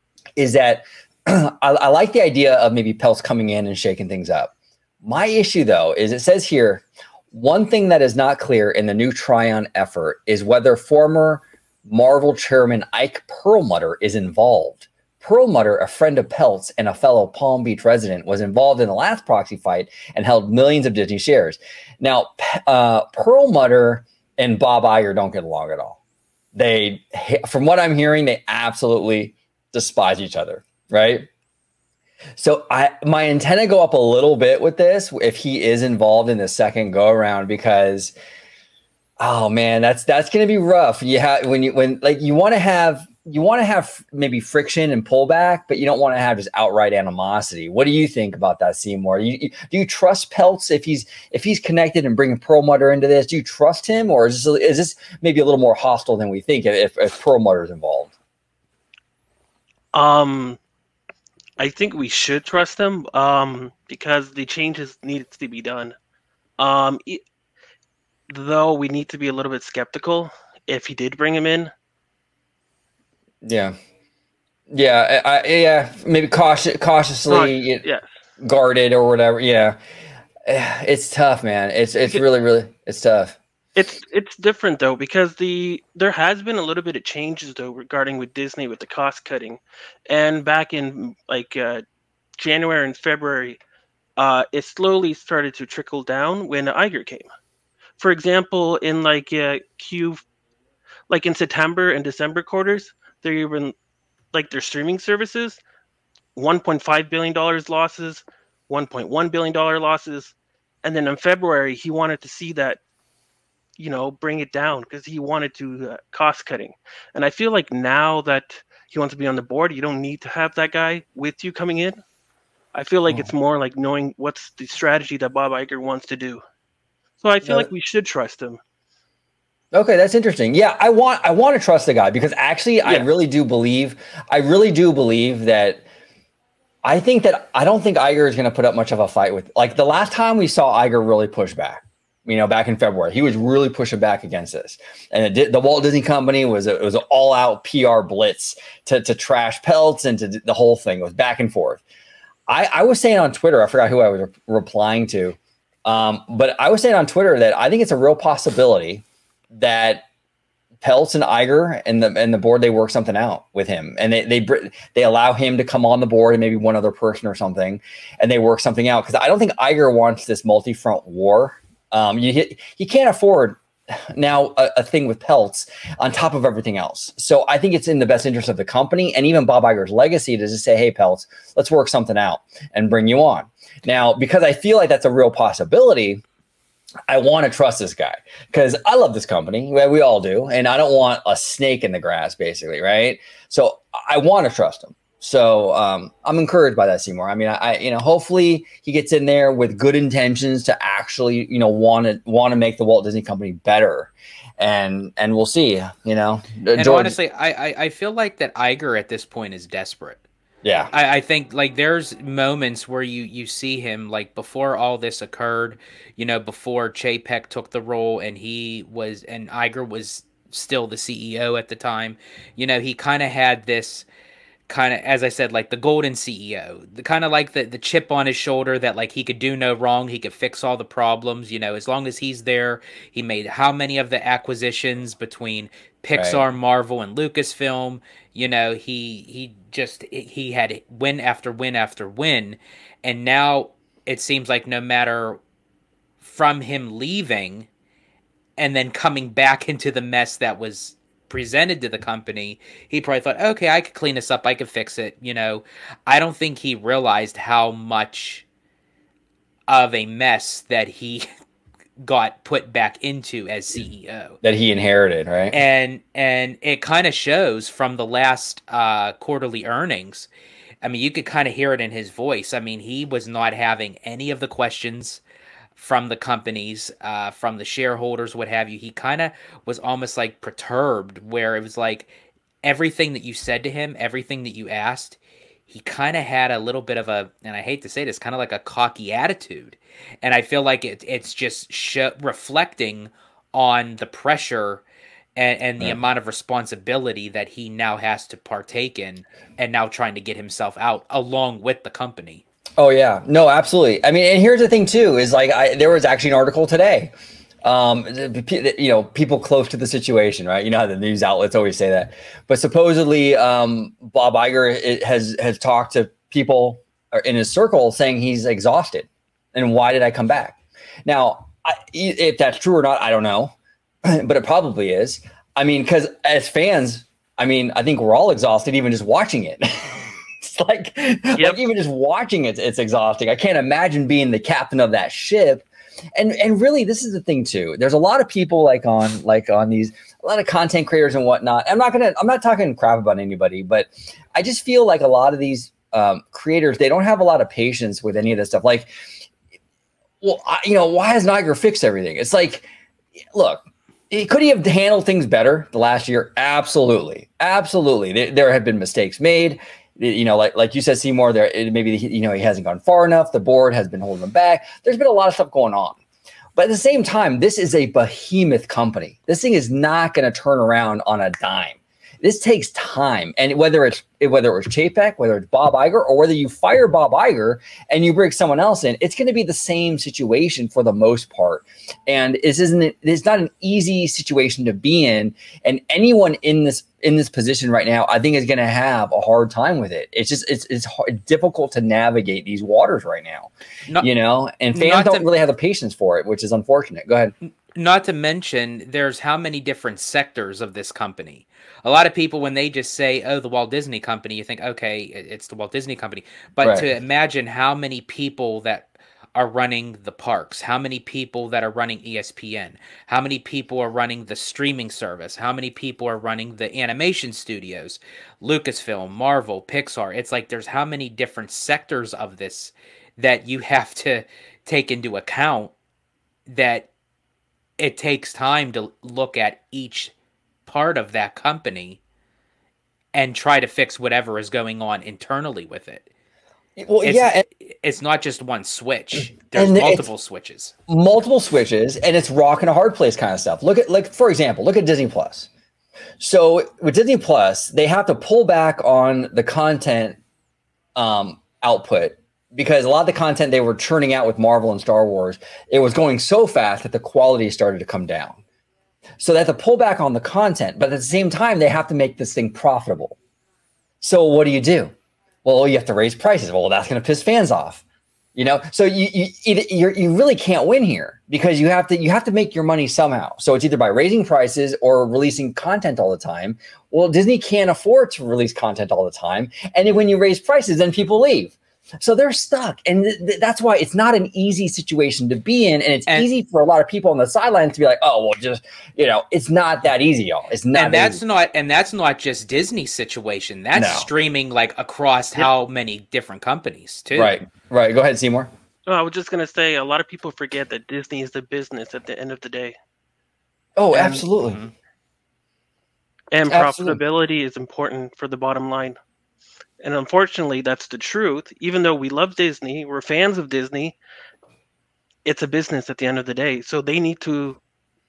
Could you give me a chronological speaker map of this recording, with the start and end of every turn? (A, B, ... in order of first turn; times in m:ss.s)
0:00.4-0:04.5 A
0:05.0-0:26.0 A
0:26.5-0:31.3 A
0:32.4-0:38.1 A
0:39.2-0:58.1 A
0:59.9-1:00.6 B
1:01.6-1:05.9 B
1:06.6-1:07.2 B
1:08.3-1:11.7 B
1:13.4-1:13.7 A
1:14.7-1:17.8 A
1:17.3-1:18.1 B
1:18.4-1:19.8 A
1:20.5-1:23.4 A
1:23.8-1:31.8 B
1:32.4-1:33.6 B
1:34.2-1:37.3 B
1:38.0-1:40.2 B
1:41.1-1:43.7 B
1:44.3-1:45.6 B
1:46.3-1:52.8 B
1:53.8-2:02.0 B
2:02.7-2:06.4 B
2:07.2-2:08.6 B
2:07.4-2:07.7 A
2:09.7-2:15.8 A
2:16.8-2:31.8 A
2:32.5-2:40.0 A
2:40.8-3:06.2 A
3:07.1-3:27.1 A
3:26.8-3:30.2 C
3:30.6-3:30.9 A
3:30.9-3:44.0 C
3:44.7-4:05.4 C
3:56.1-3:56.4 A
4:06.2-4:07.7 C
4:08.6-4:18.4 C
4:19.7-4:21.2 C
4:22.0-4:24.4 C
4:24.4-4:25.6 A
4:25.5-4:30.3 C
4:30.8-4:35.2 C
4:35.8-4:42.1 C
4:42.6-4:45.2 C
4:45.7-4:54.8 C
4:55.4-5:02.4 C
5:02.8-5:07.1 A
5:07.6-5:23.5 A
5:24.0-5:48.9 A
5:50.2-5:52.7 A
5:53.3-6:06.0 A
6:06.6-6:37.3 A
6:34.7-6:35.2 C
6:37.7-7:05.7 C
6:46.6-6:46.9 A
7:06.5-7:06.9 C
7:07.8-7:10.1 C
7:10.7-7:12.0 C
7:13.1-7:16.0 C
7:16.8-7:17.4 A
7:17.0-7:20.7 C
7:19.5-7:20.1 A
7:20.9-7:25.5 A
7:26.2-7:30.2 A
7:31.0-7:38.4 A
7:39.2-7:43.2 A
7:44.0-7:44.9 A
7:45.4-7:47.8 A
7:48.4-8:11.2 A
8:10.7-8:17.3 C
8:13.7-8:14.1 A
8:17.1-8:18.5 A
8:18.9-8:22.8 B
8:23.8-8:24.6 A
8:26.3-8:29.0 B
8:26.5-8:27.0 A
8:29.8-8:34.0 B
8:35.2-8:37.6 B